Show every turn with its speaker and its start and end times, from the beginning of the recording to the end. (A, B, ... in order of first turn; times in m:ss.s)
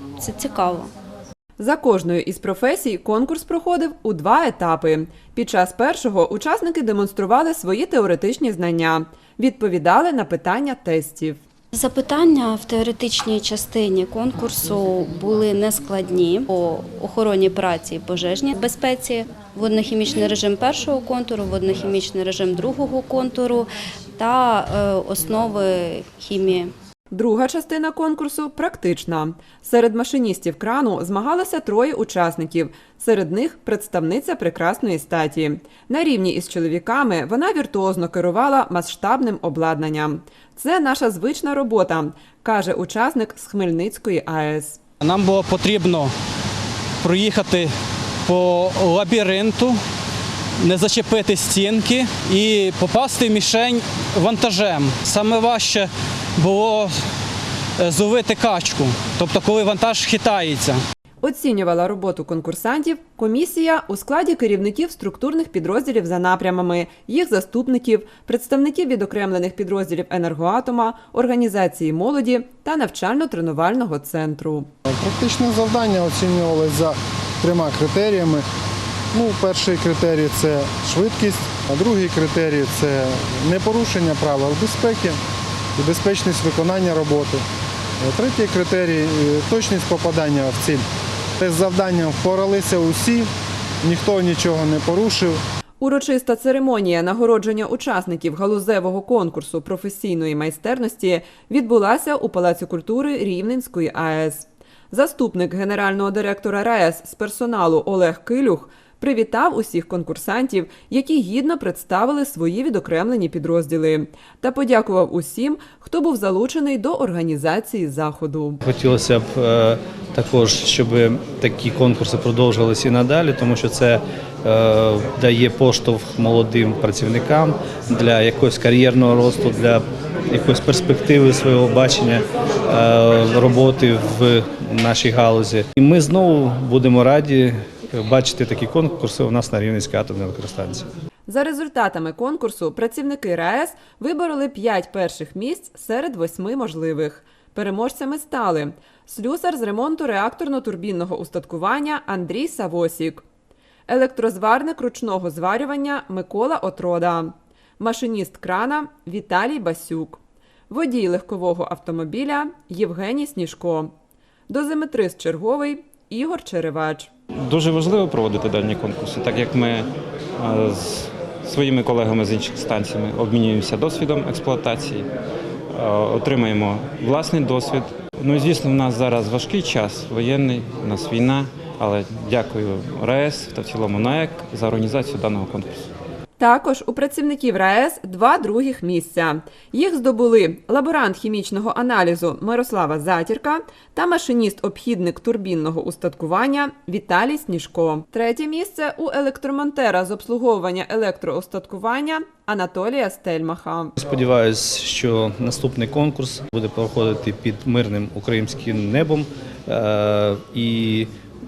0:00.2-0:00.9 A
0:01.6-0:11.4 B
0:11.7-0:26.7 A
0:27.1-0:44.8 B
0:45.0-0:46.1 C
0:47.0-0:47.7 C
0:48.3-0:49.8 C
0:50.6-0:57.0 C
0:57.8-1:00.8 C
1:01.2-1:14.7 B
1:14.8-1:18.4 D
1:19.1-1:25.2 D
1:25.8-1:27.4 D
1:28.0-1:30.8 D
1:31.4-1:33.3 D
1:33.8-1:35.4 D
1:35.8-1:58.6 B
1:58.6-2:20.9 E
2:21.3-2:33.2 B
2:33.9-2:43.9 B
2:44.5-2:47.1 B
2:47.4-2:55.1 F
2:55.7-3:05.8 F
3:06.4-3:23.9 B
3:24.0-3:31.1 E